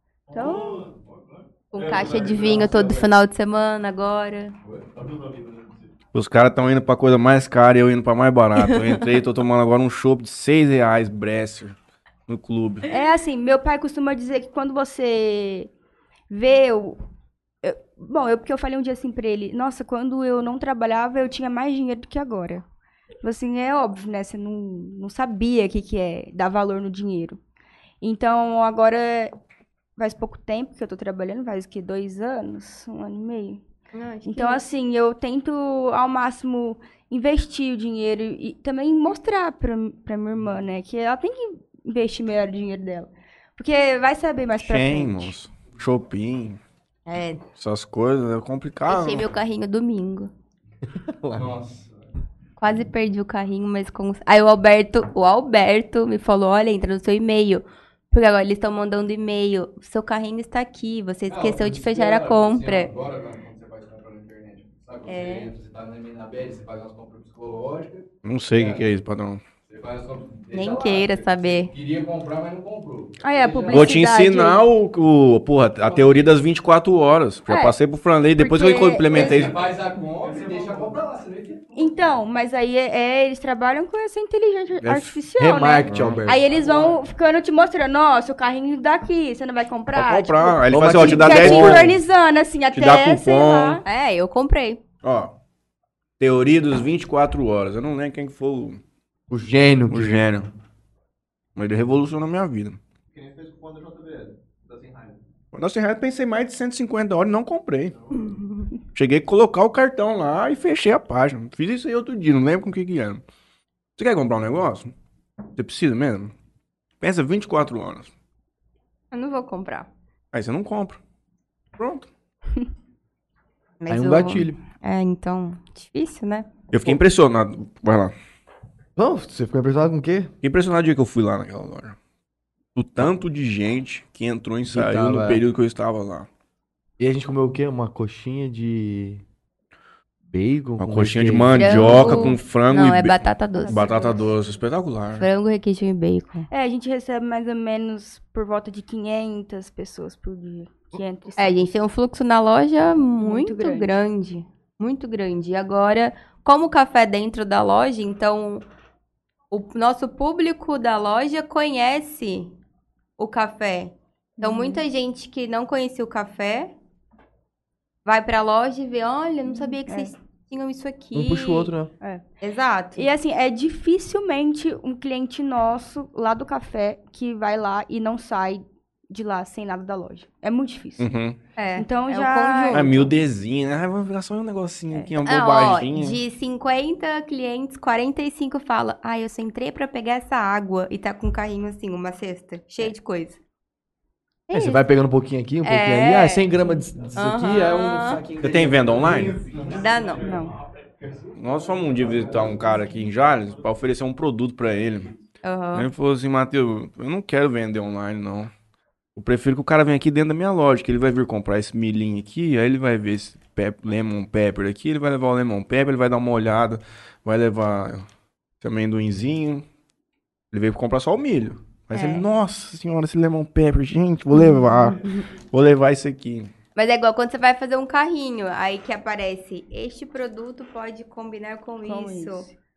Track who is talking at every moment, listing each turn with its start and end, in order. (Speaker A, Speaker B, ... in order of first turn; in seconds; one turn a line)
Speaker A: 0.3-1.0
Speaker B: 0.3-0.8
Speaker C: 1.7-4.5
Speaker A: 1.8-3.1
Speaker A: 4.7-5.6
Speaker D: 6.1-11.8
Speaker C: 8.6-9.0
Speaker D: 12.3-12.8
Speaker B: 12.9-15.7
Speaker B: 16.3-17.0
Speaker B: 17.6-22.6
Speaker B: 23.2-27.4
Speaker B: 28.0-29.3
Speaker B: 30.0-33.6
Speaker C: 33.9-34.6
Speaker B: 34.3-45.3
Speaker D: 44.6-46.6
Speaker C: 47.1-47.4
Speaker D: 47.6-49.2
Speaker C: 48.9-50.3
Speaker E: 51.1-51.5
Speaker A: 51.4-51.9
Speaker C: 52.6-62.9
Speaker A: 61.3-68.8
Speaker C: 65.1-65.5
Speaker D: 68.2-69.4
Speaker A: 69.7-74.0
Speaker C: 70.5-71.7
Speaker B: 73.2-74.6
Speaker D: 73.7-79.6
Speaker A: 75.8-76.2
Speaker B: 77.5-77.8
Speaker B: 78.4-79.5
Speaker A: 79.1-81.7
Speaker B: 81.8-93.8
Speaker D: 84.8-85.2
Speaker E: 85.4-86.4
Speaker A: 85.9-87.0
Speaker D: 89.9-92.0
Speaker E: 90.7-92.0
Speaker D: 92.7-93.8
Speaker C: 93.8-94.8
Speaker D: 95.0-95.3
Speaker D: 96.2-98.8
Speaker E: 99.3-100.3
Speaker D: 99.9-100.5
Speaker D: 101.6-102.8
Speaker A: 103.3-104.2
Speaker D: 105.5-108.0
Speaker D: 108.9-113.2
Speaker D: 114.0-114.9
Speaker D: 115.6-116.3
Speaker D: 117.0-118.1
Speaker C: 119.1-119.9
Speaker D: 120.3-121.0
Speaker D: 121.8-122.1
Speaker C: 123.8-126.5
Speaker E: 123.9-124.6
Speaker D: 126.7-128.1
Speaker E: 129.0-130.3
Speaker D: 130.4-132.0
Speaker D: 132.8-136.3
Speaker E: 134.7-135.4
Speaker E: 137.0-139.2
Speaker E: 140.3-142.2
Speaker D: 140.8-145.3
Speaker C: 141.6-144.1
Speaker B: 143.6-144.3
Speaker C: 145.2-146.5
Speaker B: 146.5-151.6
Speaker C: 151.4-158.6
Speaker B: 153.2-153.9
Speaker C: 159.5-162.5
Speaker C: 163.2-166.7
Speaker B: 164.4-164.8
Speaker C: 168.1-171.7
Speaker B: 169.5-170.1
Speaker E: 171.1-171.9
Speaker C: 172.4-173.1
Speaker B: 173.0-181.1
Speaker D: 181.0-181.4
Speaker C: 181.6-183.1
Speaker B: 181.8-182.9
Speaker D: 182.7-186.2
Speaker C: 184.9-193.4
Speaker C: 194.5-194.8
Speaker E: 194.5-197.4
Speaker C: 195.6-196.5
Speaker C: 197.2-198.2
Speaker A: 197.2-199.8
Speaker D: 198.4-199.5
Speaker C: 199.6-200.4
Speaker B: 200.2-200.5
Speaker D: 201.3-205.1
Speaker A: 202.0-202.8
Speaker C: 205.4-205.9
Speaker D: 205.7-208.5
Speaker D: 209.2-218.1
Speaker D: 218.6-219.7
Speaker D: 220.5-226.5
Speaker C: 221.9-222.2
Speaker C: 226.8-232.5
Speaker B: 231.8-232.6